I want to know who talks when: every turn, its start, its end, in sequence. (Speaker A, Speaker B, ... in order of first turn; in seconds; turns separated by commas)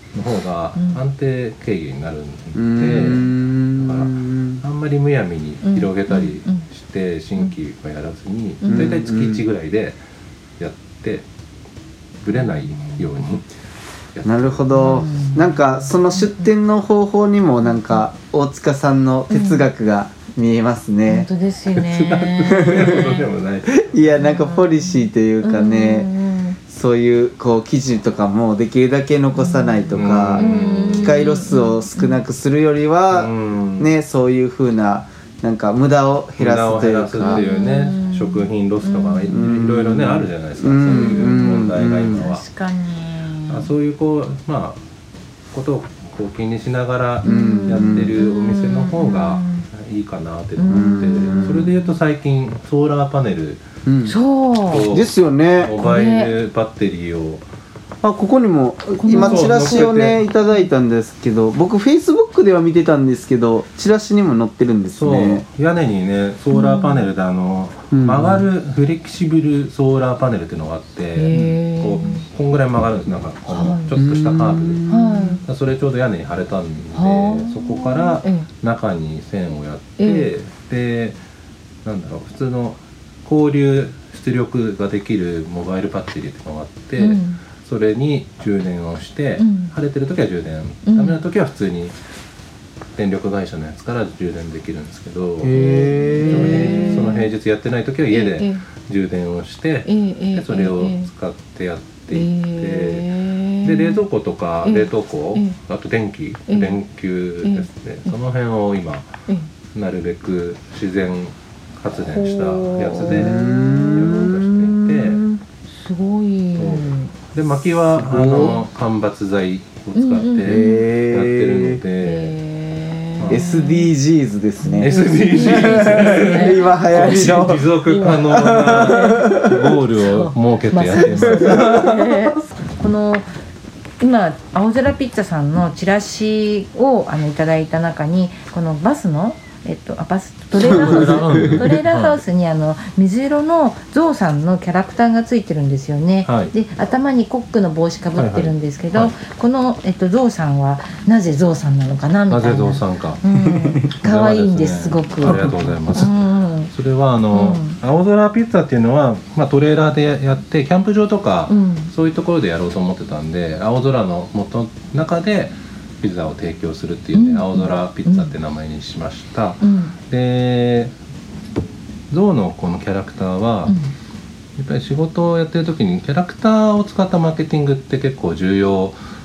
Speaker A: 0.1-10.0, Speaker B: 2.5-4.6, Speaker C: 5.6-6.6, Speaker C: 8.6-9.0, Speaker B: 8.7-9.4, Speaker A: 10.6-11.2, Speaker A: 12.2-13.4, Speaker C: 12.4-13.0, Speaker A: 14.1-14.6, Speaker B: 14.2-21.3, Speaker C: 14.7-16.5, Speaker C: 19.3-19.7, Speaker C: 21.1-23.3, Speaker A: 21.7-24.0, Speaker B: 22.4-23.1, Speaker B: 23.8-26.1, Speaker C: 24.2-26.6, Speaker B: 26.7-37.5, Speaker C: 29.4-32.2, Speaker A: 29.9-31.3, Speaker A: 33.1-33.9, Speaker A: 36.4-42.4, Speaker C: 37.2-39.5, Speaker B: 39.3-42.2, Speaker C: 40.9-43.7, Speaker A: 43.5-44.8, Speaker A: 45.5-53.6, Speaker C: 47.2-49.6, Speaker B: 47.2-48.1, Speaker C: 50.6-51.9, Speaker B: 50.7-51.7, Speaker B: 53.9-54.2, Speaker C: 54.0-54.9, Speaker A: 54.7-57.4, Speaker B: 54.9-55.7, Speaker C: 55.7-56.3, Speaker B: 58.0-65.4, Speaker C: 59.0-60.7, Speaker A: 59.1-60.2, Speaker A: 64.9-74.8, Speaker C: 66.5-67.1, Speaker B: 67.9-68.4, Speaker C: 71.1-72.2, Speaker B: 71.3-72.1, Speaker C: 73.5-74.0, Speaker B: 73.9-75.4, Speaker C: 74.9-75.4, Speaker A: 75.4-81.2, Speaker C: 76.9-78.5, Speaker C: 80.0-80.3, Speaker A: 81.8-91.9, Speaker C: 87.0-87.4, Speaker C: 89.4-89.7, Speaker C: 90.8-91.2, Speaker A: 93.0-95.6, Speaker B: 95.4-97.1, Speaker C: 95.5-97.3, Speaker A: 96.2-109.1, Speaker C: 98.1-98.6, Speaker C: 99.8-101.1, Speaker C: 102.1-104.0, Speaker C: 104.6-105.6, Speaker C: 106.5-106.8, Speaker C: 107.4-108.1, Speaker A: 109.7-115.2, Speaker C: 112.1-117.1, Speaker B: 113.0-114.5, Speaker A: 116.6-122.3, Speaker B: 117.9-118.6, Speaker C: 119.9-120.8, Speaker B: 120.4-121.8, Speaker C: 122.0-123.9, Speaker A: 123.2-123.5, Speaker B: 123.3-129.7, Speaker C: 124.6-129.3, Speaker A: 124.8-132.4, Speaker C: 130.0-133.2, Speaker B: 130.9-131.8, Speaker C: 134.0-156.7, Speaker A: 140.6-142.2, Speaker B: 140.7-141.6, Speaker A: 146.2-146.5, Speaker A: 148.2-149.2, Speaker A: 152.3-153.2, Speaker B: 153.3-153.9, Speaker A: 153.9-170.9, Speaker C: 157.3-157.8, Speaker C: 161.5-161.9, Speaker C: 167.1-168.3, Speaker C: 169.6-169.9, Speaker A: 172.1-173.8, Speaker C: 173.7-173.9, Speaker A: 174.6-179.0